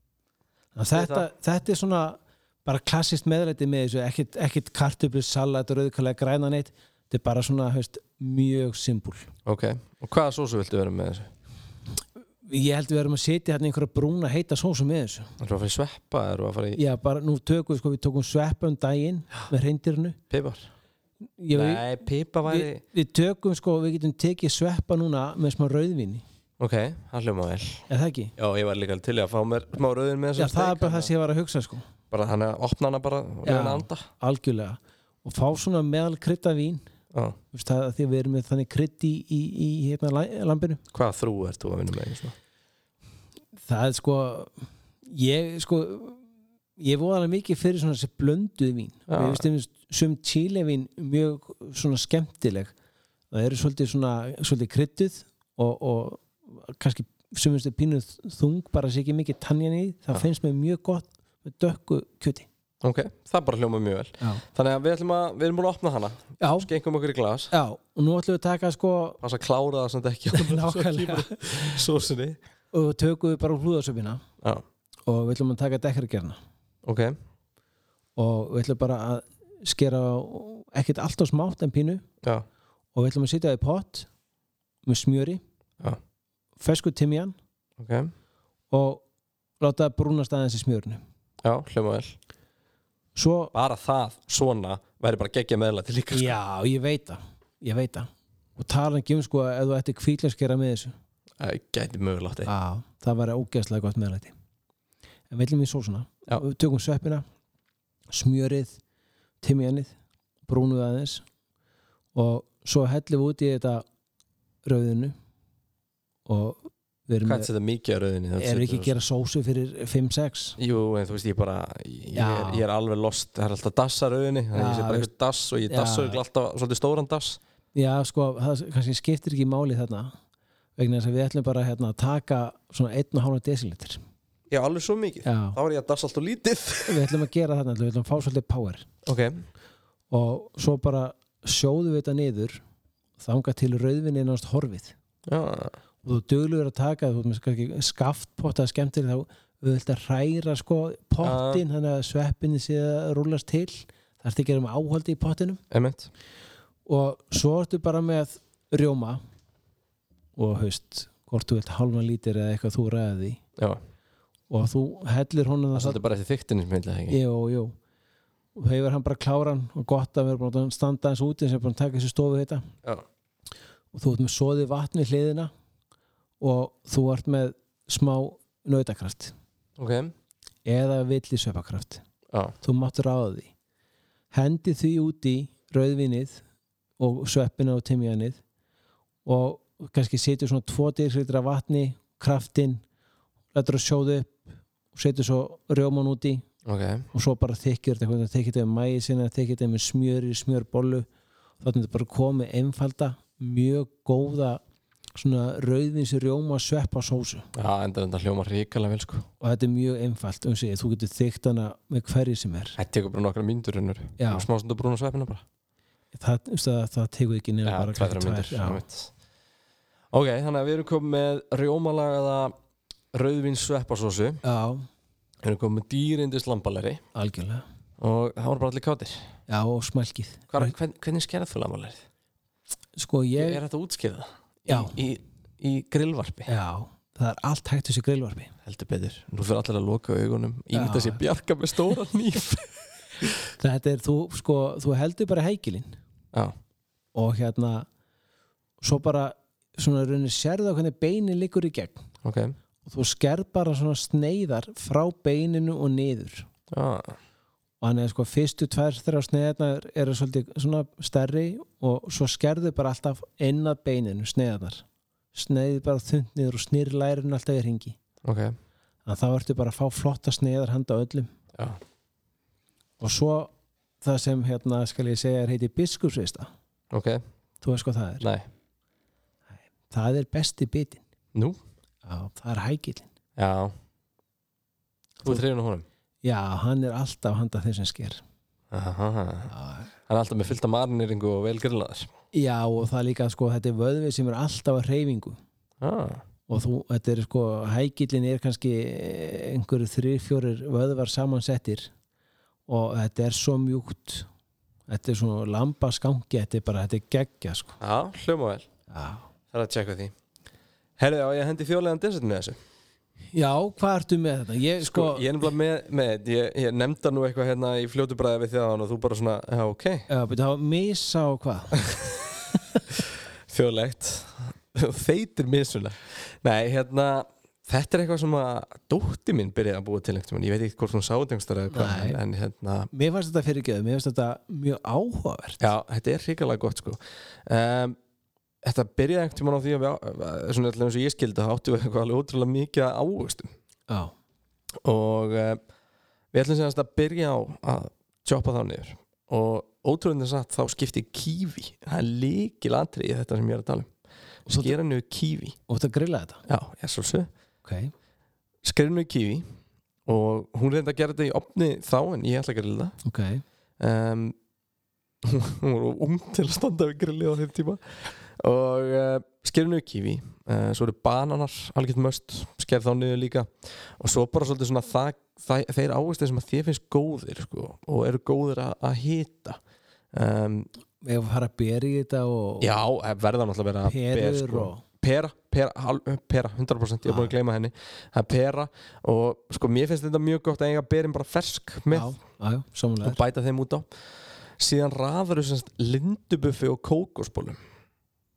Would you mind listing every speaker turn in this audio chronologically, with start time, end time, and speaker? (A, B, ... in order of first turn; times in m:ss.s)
0:00.8-0:09.3 A
0:00.9-0:01.3 B
0:09.5-0:11.3 B
0:12.4-0:15.3 A
0:15.4-0:16.8 B
0:16.8-0:20.2 A
0:20.3-0:20.7 B
0:21.4-0:26.2 A
0:21.5-0:22.8 B
0:26.6-0:27.8 B
0:27.9-0:28.3 A
0:28.4-0:31.1 B
0:30.4-0:31.8 A
0:32.1-0:34.1 B
0:33.4-0:36.9 A
0:37.1-0:37.4 B
0:37.5-0:40.8 A
0:40.9-0:42.4 B
0:43.6-0:44.5 A
0:45.1-0:46.2 A
0:46.8-0:52.7 A
0:49.1-0:49.4 B
0:53.3-1:02.5 A
1:02.8-1:07.5 B
1:06.4-1:06.7 A
1:07.5-1:09.2 A
1:09.2-1:12.4 B
1:10.3-1:11.8 A
1:12.7-1:14.2 A
1:15.1-1:16.4 A
1:16.8-1:17.2 B
1:18.2-1:22.0 A
1:23.0-1:24.1 A
1:24.9-1:25.4 A
1:26.6-1:27.4 A
1:27.8-1:28.1 B
1:28.7-1:29.0 A
1:29.6-1:31.0 A
1:31.4-1:32.2 B
1:33.2-1:33.5 A
1:33.5-1:36.4 B
1:36.1-1:40.9 A
1:41.4-1:42.5 B
1:42.5-1:44.3 A
1:45.3-1:47.2 A
1:48.1-1:48.8 A
1:49.4-1:50.0 A
1:50.5-1:51.2 A
1:52.2-1:53.8 A
1:54.6-1:55.2 A
1:56.3-1:57.5 A
1:57.2-1:59.0 B
1:58.4-2:00.6 A
2:00.6-2:07.4 B
2:02.2-2:02.6 A
2:04.5-2:05.1 A
2:05.7-2:06.2 A
2:07.8-2:10.2 A
2:10.8-2:14.0 A
2:14.5-2:17.0 B
2:15.2-2:15.6 A
2:16.9-2:18.9 A
2:19.0-2:19.5 B
2:20.1-2:22.6 A
2:23.2-2:25.0 A
2:25.3-2:25.8 B
2:26.0-2:35.6 A
2:31.2-2:31.6 B
2:35.7-2:36.1 B
2:36.9-2:39.2 A
2:40.4-2:43.4 A
2:44.5-2:46.0 A
2:45.8-2:47.2 B
2:47.1-2:47.8 A
2:48.6-2:52.7 A
2:53.9-2:55.5 A
2:56.4-2:59.4 A
2:59.8-3:00.1 B
3:00.6-3:02.0 A
3:02.6-3:03.5 A
3:04.3-3:06.4 A
3:07.0-3:08.4 A
3:09.2-3:12.8 A
3:13.5-3:16.5 A
3:16.6-3:17.1 B
3:17.1-3:21.1 A
3:21.6-3:24.6 A
3:25.2-3:27.5 A
3:27.6-3:29.3 B
3:29.4-3:32.8 A
3:32.8-3:35.4 B
3:34.2-3:34.5 A
3:36.2-3:38.8 A
3:37.6-3:39.1 B
3:40.1-3:42.6 B
3:43.1-3:44.4 B
3:44.4-3:44.9 A
3:45.4-3:47.0 B
3:47.1-3:47.6 A
3:48.0-3:49.3 B
3:49.5-3:50.7 A
3:50.5-3:52.0 B
3:53.0-3:53.6 A
3:53.4-3:56.5 B
3:54.7-3:55.0 A
3:56.5-3:58.5 A
3:58.7-4:03.3 B
4:00.7-4:01.2 A
4:03.6-4:06.0 A
4:07.2-4:07.9 A
4:08.8-4:12.0 A
4:12.2-4:12.6 B
4:12.8-4:16.5 A
4:16.7-4:17.2 B
4:17.8-4:28.0 A
4:28.2-4:28.6 B
4:29.1-4:31.3 A
4:31.6-4:31.8 B
4:33.0-4:36.5 A
4:36.9-4:37.2 B
4:37.6-4:38.3 A
4:38.2-4:38.5 B
4:39.9-4:41.0 A
4:41.3-4:41.6 B
4:42.0-4:43.1 A
4:43.4-4:43.8 B
4:45.2-4:45.8 B
4:46.2-4:48.2 A
4:48.7-4:49.5 B
4:49.5-4:49.9 A
4:50.1-4:52.1 B
4:52.3-4:55.4 A
4:55.8-4:56.2 B
4:56.5-5:01.9 A
5:02.7-5:04.3 A
5:04.9-5:07.8 A
5:07.8-5:08.7 B
5:08.9-5:09.3 A
5:09.5-5:10.1 B
5:11.0-5:12.6 B
5:13.3-5:15.3 A
5:14.8-5:20.1 B
5:20.1-5:21.9 A
5:23.0-5:32.9 B
5:31.7-5:32.2 A
5:32.9-5:35.6 A
5:35.6-5:38.0 B
5:38.6-5:43.5 B
5:44.8-5:45.6 B
5:46.3-5:53.9 B
5:54.5-5:54.7 A
5:54.5-5:55.6 B
5:55.7-5:56.4 A
5:56.5-5:57.3 B
5:57.6-5:57.9 A
5:58.6-5:59.5 B
6:00.1-6:03.0 B
6:03.0-6:03.4 A
6:03.8-6:04.4 B
6:05.2-6:19.6 B
6:20.1-6:20.7 B
6:21.0-6:22.7 A
6:22.6-6:32.1 B
6:23.8-6:24.8 A
6:31.9-6:33.2 A
6:33.0-6:33.9 B
6:34.6-6:37.6 B